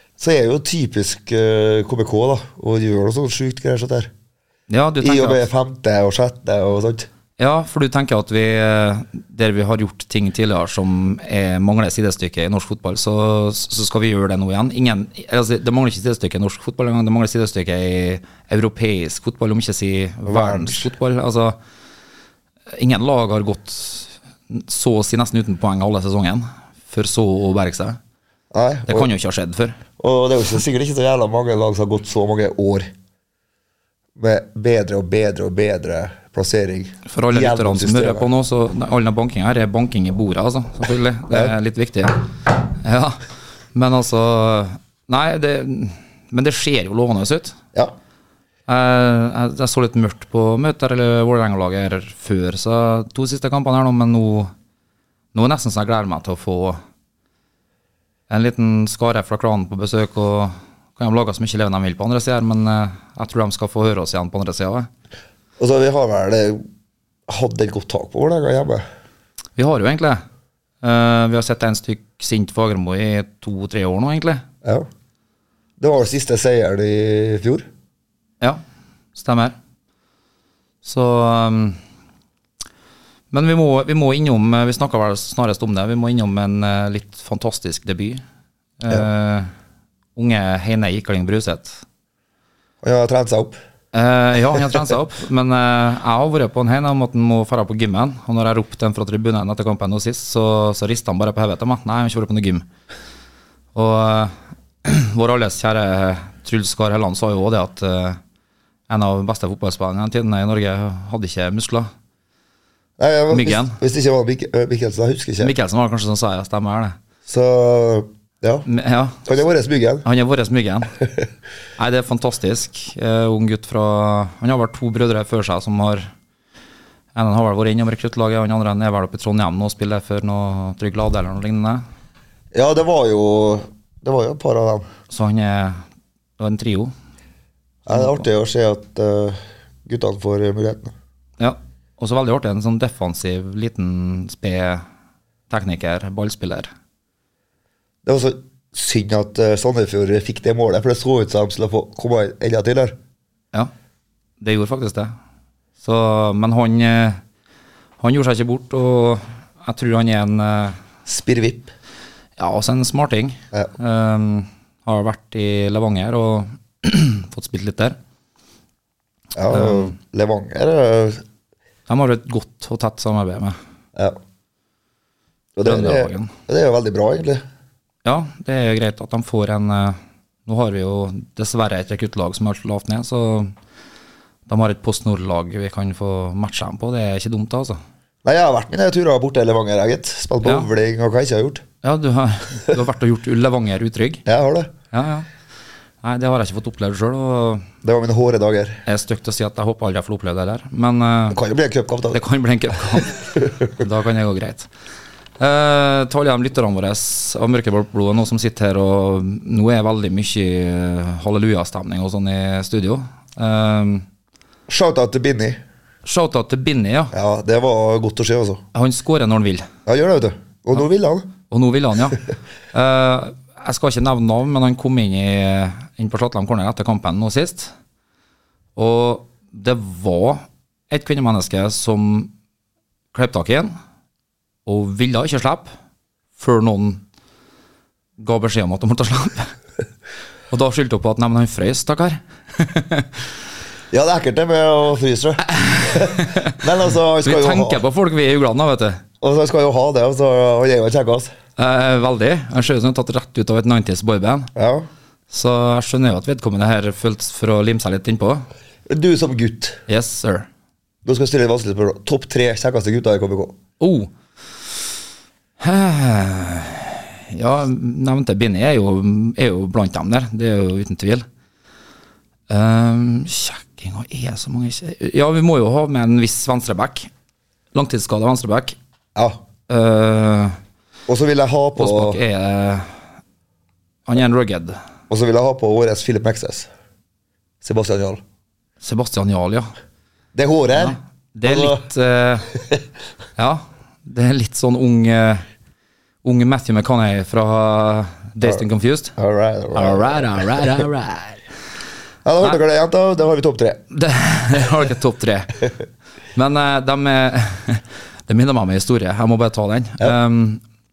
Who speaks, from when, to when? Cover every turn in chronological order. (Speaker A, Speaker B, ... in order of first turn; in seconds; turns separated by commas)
Speaker A: 0.2-4.1, Speaker B: 4.7-5.5, Speaker A: 5.0-7.1, Speaker B: 7.4-21.6, Speaker A: 20.2-20.9, Speaker B: 22.7-28.0, Speaker A: 28.5-29.1, Speaker B: 28.9-29.8, Speaker A: 30.0-32.9, Speaker A: 34.2-38.3, Speaker B: 37.1-43.2, Speaker B: 43.7-47.6, Speaker B: 48.7-54.5, Speaker B: 55.3-56.8, Speaker B: 58.3-64.9, Speaker A: 65.6-66.6, Speaker A: 67.3-68.8, Speaker B: 69.5-70.2, Speaker B: 70.8-74.4, Speaker A: 75.8-77.7, Speaker B: 79.1-79.5, Speaker B: 80.8-81.8, Speaker B: 83.3-88.2, Speaker B: 88.8-89.5, Speaker B: 90.2-91.8, Speaker A: 92.8-93.6, Speaker B: 93.9-102.6, Speaker B: 103.7-108.2, Speaker B: 108.9-111.9, Speaker A: 113.0-115.5, Speaker B: 113.3-113.8, Speaker B: 115.4-116.9, Speaker A: 117.3-118.7, Speaker B: 118.7-119.2, Speaker A: 119.2-120.0, Speaker B: 120.0-120.9, Speaker B: 121.8-126.1, Speaker B: 127.1-131.8, Speaker A: 132.5-134.9, Speaker B: 135.1-135.8, Speaker B: 136.4-136.9, Speaker A: 137.8-140.9, Speaker B: 137.9-138.2, Speaker B: 141.4-144.8, Speaker B: 145.5-146.7, Speaker A: 148.0-152.9, Speaker B: 154.4-155.1, Speaker B: 155.8-157.2, Speaker B: 158.0-160.8, Speaker A: 161.1-161.7, Speaker B: 162.4-168.0, Speaker A: 169.3-171.2, Speaker B: 169.5-169.9, Speaker B: 171.9-173.6, Speaker A: 175.6-177.4, Speaker B: 175.6-176.3, Speaker B: 178.0-183.5, Speaker B: 184.5-187.8, Speaker A: 188.2-191.6, Speaker B: 190.4-190.7, Speaker B: 191.8-194.2, Speaker A: 194.2-194.7, Speaker B: 194.9-195.3, Speaker B: 196.0-197.7, Speaker A: 197.8-198.8, Speaker B: 198.8-201.4, Speaker A: 201.3-202.2, Speaker B: 202.1-204.7, Speaker A: 202.9-203.7, Speaker B: 205.4-214.1, Speaker A: 214.7-215.6, Speaker B: 216.0-217.1, Speaker A: 217.1-218.6, Speaker B: 218.7-219.7, Speaker A: 219.8-221.3, Speaker B: 221.5-227.7, Speaker B: 228.8-232.3, Speaker B: 233.1-233.7, Speaker B: 234.7-235.7, Speaker B: 236.4-237.0, Speaker B: 238.2-239.5, Speaker B: 240.5-243.1, Speaker A: 243.9-247.8, Speaker B: 245.6-246.6, Speaker B: 247.2-249.0, Speaker A: 249.2-251.3, Speaker B: 251.6-254.5, Speaker A: 254.5-254.9, Speaker B: 255.3-258.4, Speaker A: 258.9-259.8, Speaker B: 259.9-260.5, Speaker A: 261.0-263.6, Speaker B: 263.8-264.1, Speaker B: 265.6-271.2, Speaker B: 272.5-277.1, Speaker B: 277.7-278.8, Speaker A: 279.1-279.4, Speaker B: 279.7-280.6, Speaker A: 281.1-282.2, Speaker B: 281.8-282.9, Speaker B: 284.1-284.8, Speaker A: 285.1-286.7, Speaker A: 287.6-288.2, Speaker B: 288.8-289.7, Speaker A: 290.3-291.8, Speaker B: 290.7-292.5, Speaker B: 293.4-295.4, Speaker B: 296.2-299.1, Speaker A: 299.2-300.6, Speaker B: 299.7-301.4, Speaker A: 302.2-303.8, Speaker B: 303.9-305.7, Speaker B: 306.3-310.6